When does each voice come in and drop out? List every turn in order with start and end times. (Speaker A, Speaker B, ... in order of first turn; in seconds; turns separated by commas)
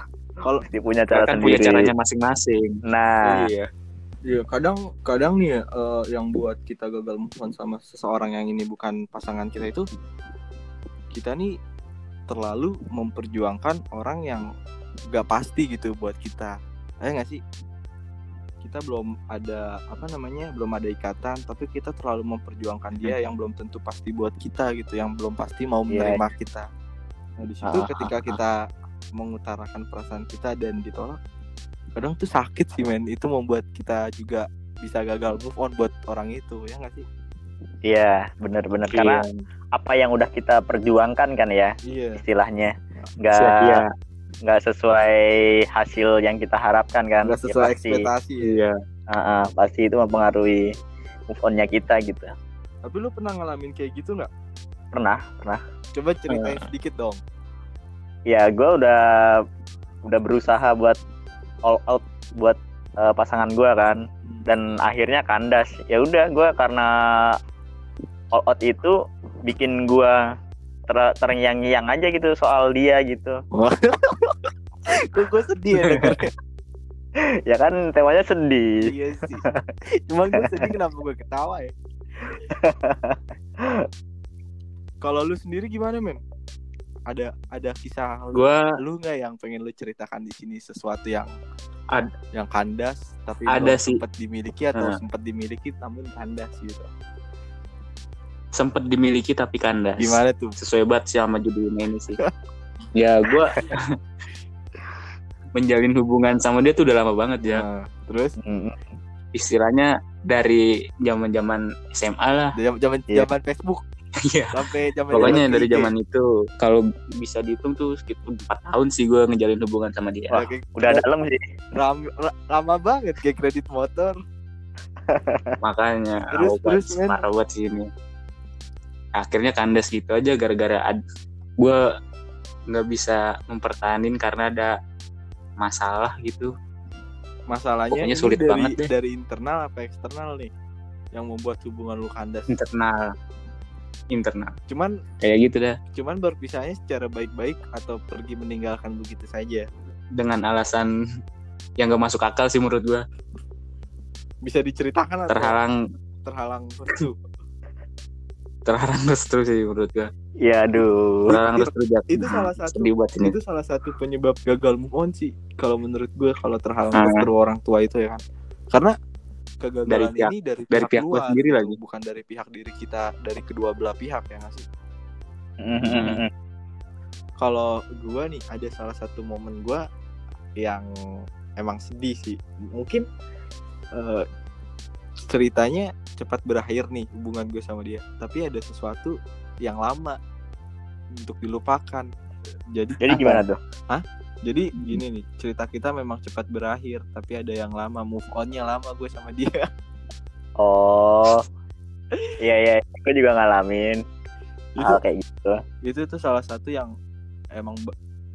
Speaker A: 0.6-1.9, Speaker B: 1.1-2.8, Speaker A: 2.9-3.5, Speaker C: 3.2-3.6, Speaker C: 4.2-9.9, Speaker C: 11.1-11.5, Speaker C: 12.3-14.4, Speaker C: 15.1-17.4, Speaker C: 18.6-26.7, Speaker A: 25.9-26.2, Speaker C: 27.4-28.6, Speaker A: 27.6-28.1, Speaker C: 29.1-31.2, Speaker C: 31.9-37.0, Speaker A: 37.9-39.2, Speaker B: 38.9-39.4, Speaker A: 39.7-43.8, Speaker C: 41.9-42.2, Speaker B: 43.3-43.9, Speaker A: 44.4-48.0, Speaker C: 47.2-48.6, Speaker B: 48.4-48.7, Speaker A: 49.1-50.7, Speaker A: 51.3-52.3, Speaker C: 52.8-54.3, Speaker A: 54.9-55.6, Speaker C: 55.9-57.2, Speaker B: 56.3-56.6, Speaker A: 58.3-59.4, Speaker A: 60.0-61.0, Speaker A: 61.6-67.3, Speaker A: 68.3-68.9, Speaker A: 69.5-70.2, Speaker A: 70.9-73.4, Speaker C: 73.5-76.3, Speaker B: 75.9-76.2, Speaker A: 77.5-78.8, Speaker C: 78.8-79.4, Speaker C: 80.1-81.7, Speaker A: 82.3-83.9, Speaker C: 85.0-86.2, Speaker C: 87.1-91.3, Speaker B: 88.3-88.7, Speaker C: 92.3-96.9, Speaker B: 93.5-94.0, Speaker B: 98.5-102.2, Speaker C: 100.0-100.5, Speaker B: 102.9-103.8, Speaker B: 105.5-107.6, Speaker C: 107.4-108.3, Speaker A: 108.4-108.8, Speaker B: 109.3-112.5, Speaker C: 112.5-113.8, Speaker B: 114.3-120.5, Speaker C: 114.5-115.9, Speaker C: 120.3-121.0, Speaker A: 120.8-121.4, Speaker C: 121.8-124.1, Speaker A: 125.1-125.5, Speaker B: 125.6-127.9, Speaker C: 126.3-127.2, Speaker B: 129.2-131.0, Speaker B: 132.7-134.7, Speaker B: 135.6-136.5, Speaker C: 137.5-140.5, Speaker B: 137.9-138.9, Speaker C: 141.1-142.5, Speaker B: 142.5-143.1, Speaker B: 144.1-144.5, Speaker C: 144.7-144.9, Speaker B: 145.2-145.8, Speaker C: 145.9-149.7, Speaker B: 150.2-150.9, Speaker B: 151.8-153.0, Speaker C: 154.4-155.5, Speaker B: 155.3-155.8, Speaker C: 156.2-157.2, Speaker B: 158.7-160.1, Speaker A: 160.4-161.4, Speaker B: 161.3-163.3, Speaker C: 161.4-168.9, Speaker B: 166.9-167.3, Speaker C: 169.6-174.6, Speaker B: 169.9-171.8, Speaker A: 175.6-176.3, Speaker B: 175.8-176.2, Speaker C: 177.4-179.8, Speaker C: 180.6-180.8, Speaker C: 181.6-183.0, Speaker C: 183.9-184.2, Speaker C: 185.2-190.2, Speaker C: 191.2-192.1, Speaker C: 192.7-199.6, Speaker A: 193.0-193.6, Speaker A: 200.6-201.4, Speaker A: 202.4-204.0, Speaker A: 204.8-205.6, Speaker C: 205.8-206.9, Speaker C: 207.5-207.9